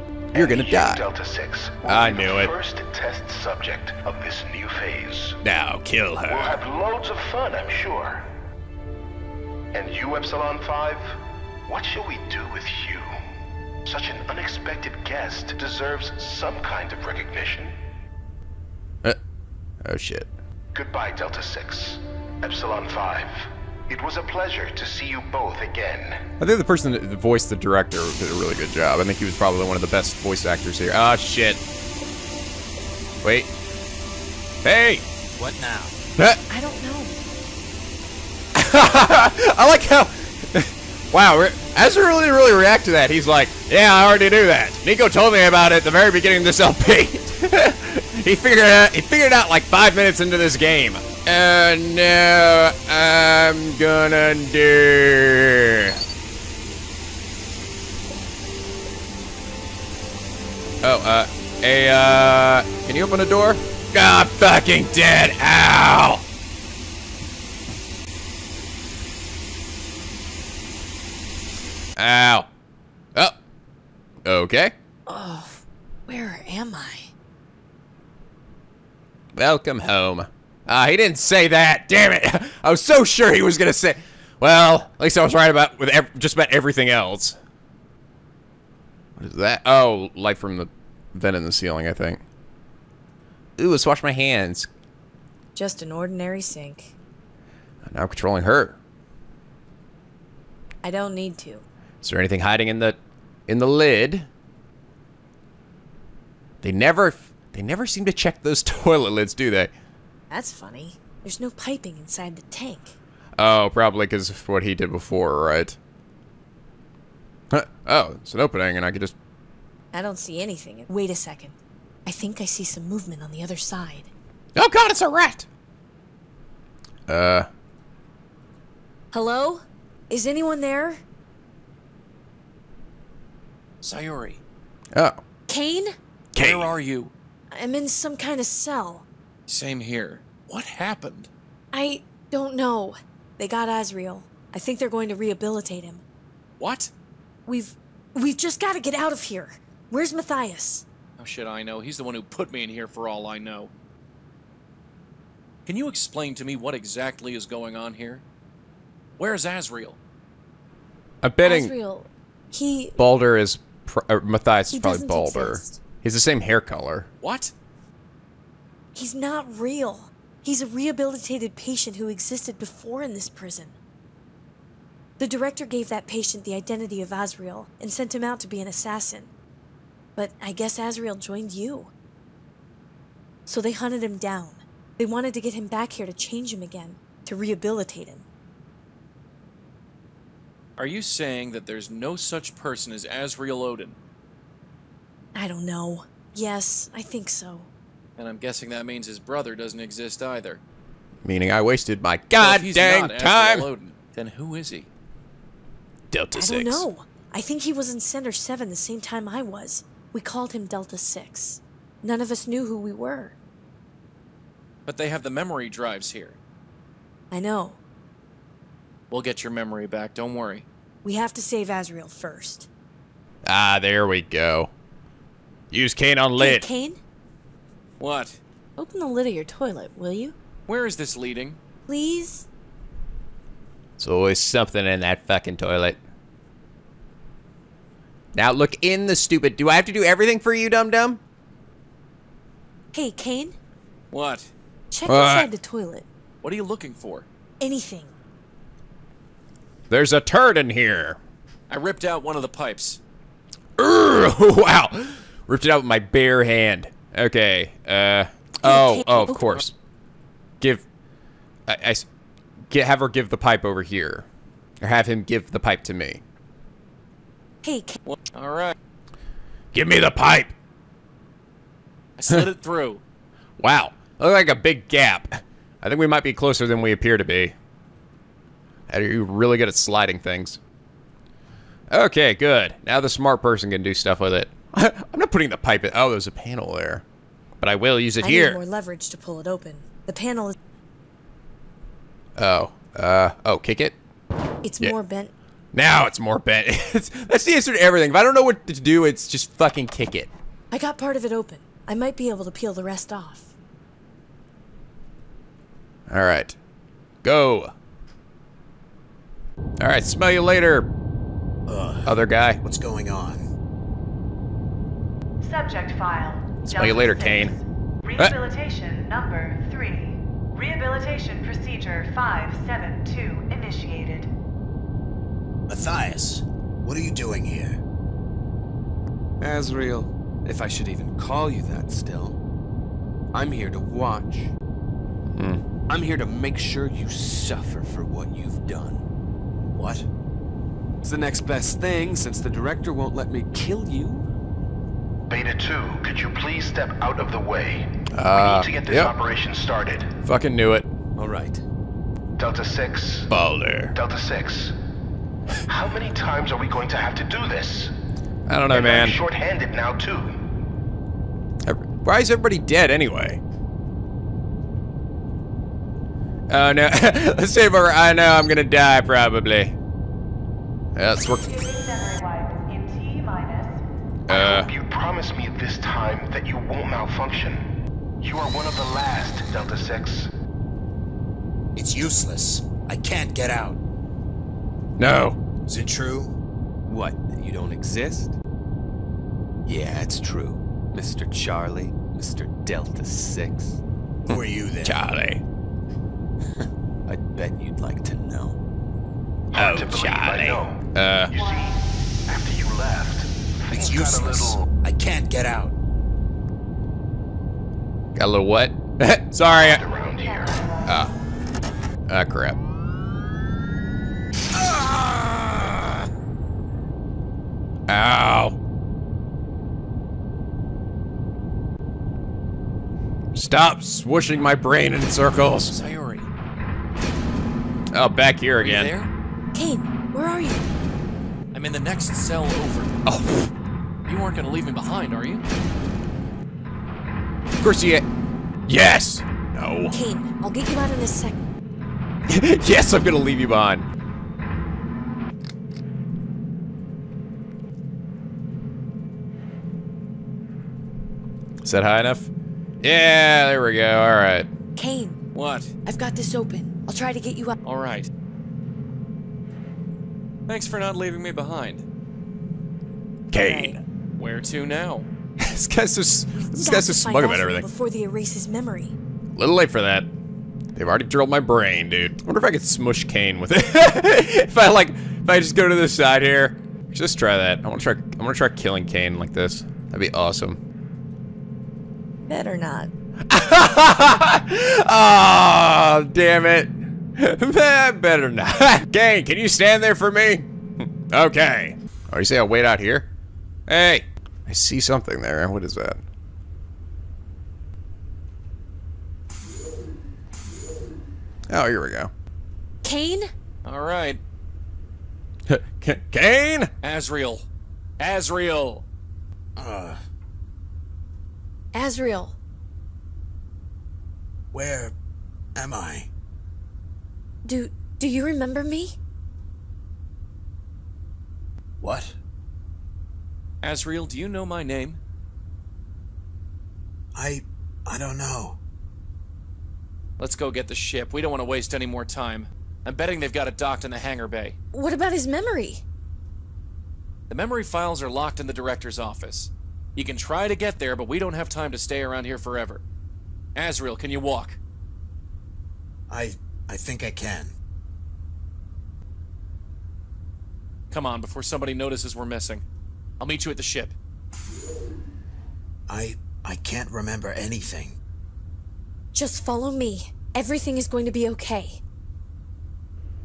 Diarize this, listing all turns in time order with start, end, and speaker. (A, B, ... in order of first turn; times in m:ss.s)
0:00.3-0:05.4 A
0:00.3-0:01.0 B
0:01.8-0:02.5 B
0:05.4-0:06.6 B
0:06.3-0:08.3 A
0:09.7-0:13.1 A
0:13.8-0:17.7 A
0:19.8-0:20.3 B
0:20.7-0:26.2 A
0:26.4-0:31.6 B
0:33.2-0:33.5 B
0:34.6-0:35.1 B
0:35.4-0:36.0 C
0:36.5-0:37.2 D
0:38.6-0:56.0 B
1:00.8-1:06.2 B
1:12.0-1:12.5 B
1:14.2-1:14.7 B
1:15.1-1:17.1 D
1:19.4-1:27.4 B
1:29.2-1:32.2 B
1:33.6-1:34.7 B
1:35.6-1:36.9 D
1:37.9-1:38.8 B
1:40.8-1:41.6 D
1:42.0-1:44.3 B
1:46.6-1:49.7 B
1:50.3-1:53.0 D
1:53.4-1:55.8 B
1:57.5-1:59.1 B
1:59.9-2:04.1 D
2:04.6-2:05.5 B
2:07.1-2:07.5 B
2:09.1-2:11.0 D
2:13.8-2:14.4 E
2:14.9-2:15.2 B
2:15.5-2:16.0 D
2:16.4-2:16.7 B
2:16.4-2:17.1 E
2:17.5-2:19.1 D
2:19.5-2:21.3 E
2:21.7-2:26.0 D
2:26.6-2:26.9 E
2:27.5-2:30.8 D
2:31.2-2:33.7 E
2:35.7-2:38.2 E
2:39.2-2:40.0 E
2:41.2-2:41.8 B
2:41.4-2:43.0 D
2:43.0-2:47.1 B
2:44.7-2:45.8 D
2:47.2-2:47.5 E
2:48.9-2:53.8 D
2:55.2-2:59.3 D
3:00.2-3:01.9 D
3:03.5-3:08.3 D
3:10.8-3:14.0 E
3:15.3-3:17.7 D
3:18.2-3:20.6 E
3:21.2-3:23.7 B
3:22.4-3:24.9 E
3:26.1-3:26.9 B
3:26.4-3:33.4 D
3:34.9-3:36.4 E
3:37.3-3:37.8 D
3:39.1-3:40.7 E
3:41.0-3:42.7 D
3:43.5-3:44.7 B
3:45.7-3:46.7 B
3:46.4-3:47.0 D
3:48.0-3:48.4 E
3:48.8-3:50.4 D
3:50.7-3:51.6 E
3:51.9-3:52.5 D
3:54.0-3:56.0 B
3:58.4-4:01.2 B
4:02.9-4:03.6 D
4:04.1-4:04.5 E
4:04.9-4:06.1 D
4:05.1-4:05.5 B
4:06.4-4:07.3 E
4:07.6-4:08.1 D
4:09.9-4:11.2 B
4:11.7-4:13.0 E
4:13.8-4:19.7 B
4:18.6-4:19.4 D
4:21.7-4:22.1 B
4:22.7-4:24.3 B
4:24.8-4:26.2 B
4:27.6-4:28.0 D
4:28.1-4:28.8 E
4:29.7-4:30.5 B
4:32.2-4:33.0 E
4:33.6-4:37.6 B
4:38.9-4:40.6 B
4:41.9-4:47.0 B
4:47.6-4:48.6 B
4:48.2-4:50.6 D
4:52.4-4:54.0 B
4:54.6-4:55.3 D
4:55.7-5:00.3 B
5:00.7-5:03.5 D
5:06.1-5:06.6 B
5:07.2-5:07.7 B
5:09.8-5:10.9 B
5:11.7-5:13.5 C
5:12.1-5:12.6 B
5:15.4-5:24.3 F
5:16.7-5:17.6 B
5:25.7-5:27.8 C
5:29.4-5:32.4 G
5:33.3-5:34.5 G
5:35.4-5:35.6 B
5:35.9-5:39.0 G
5:39.8-5:40.1 C
5:41.0-5:44.3 G
5:45.3-5:50.1 A
5:48.1-5:49.1 B
5:50.2-5:50.9 B
5:51.2-5:51.6 G
5:52.4-5:53.3 A
5:53.3-5:53.9 B
5:53.9-5:54.8 A
5:55.7-5:57.9 A
5:58.5-5:59.2 B
5:58.7-6:00.4 A
6:01.7-6:03.4 B
6:06.5-6:09.8 B
6:11.0-6:11.5 B
6:11.2-6:13.8 F
6:14.3-6:14.7 B
6:14.3-6:17.6 A
6:18.2-6:20.3 A
6:21.8-6:23.8 C
6:25.0-6:25.4 B
6:25.7-6:26.4 C
6:26.9-6:28.4 G
6:29.7-6:33.8 G
6:34.3-6:35.0 C
6:34.3-6:35.4 B
6:36.6-6:38.6 G
6:39.5-6:44.7 A
6:39.6-6:41.3 B
6:41.3-6:41.7 F
6:43.7-6:45.8 C
6:48.2-6:49.8 B
6:49.6-6:50.7 A
6:49.9-6:51.0 F
6:50.8-6:51.1 B
6:52.1-6:52.6 B
6:54.5-6:56.0 B
6:57.9-6:58.6 B
7:03.4-7:05.8 B
7:05.7-7:06.3 E
7:07.9-7:08.9 B
7:08.6-7:09.1 E
7:09.5-7:10.7 D
7:11.5-7:13.0 E
7:13.1-7:13.5 B
7:14.1-7:15.4 E
7:17.6-7:18.0 B
7:18.7-7:20.0 B
7:19.9-7:21.4 D
7:22.3-7:23.9 B
7:31.6-7:32.3 B
7:32.8-7:34.5 B
7:34.8-7:35.2 D
7:35.3-7:35.7 E
7:35.9-7:37.6 D
7:37.6-7:38.1 E
7:40.5-7:41.8 E
7:43.3-7:43.8 B
7:43.4-7:43.8 D
7:44.2-7:45.1 E
7:45.4-7:47.7 B
7:46.4-7:49.0 D
7:49.4-7:50.1 B
7:50.8-8:00.6 B
8:02.2-8:02.9 D
8:03.3-8:13.1 B
8:13.7-8:16.0 B
8:21.5-8:22.1 B
8:22.8-8:23.3 D
8:23.6-8:24.2 E
8:25.5-8:26.7 B
8:26.8-8:27.4 E
8:28.0-8:28.8 E
8:29.6-8:30.0 C
8:31.7-8:32.4 D
8:34.5-8:35.0 C
8:35.6-8:36.1 C
8:37.4-8:39.0 D
8:41.8-8:42.2 C
8:43.6-8:45.0 E
8:47.2-8:48.6 C
8:50.2-8:54.6 E
8:54.7-8:55.8 D
8:57.3-9:02.8 E
9:03.6-9:04.6 E
9:06.1-9:07.6 C
9:10.9-9:12.6 E
9:13.2-9:13.9 E
9:15.9-9:18.0 C
9:19.1-9:21.8 D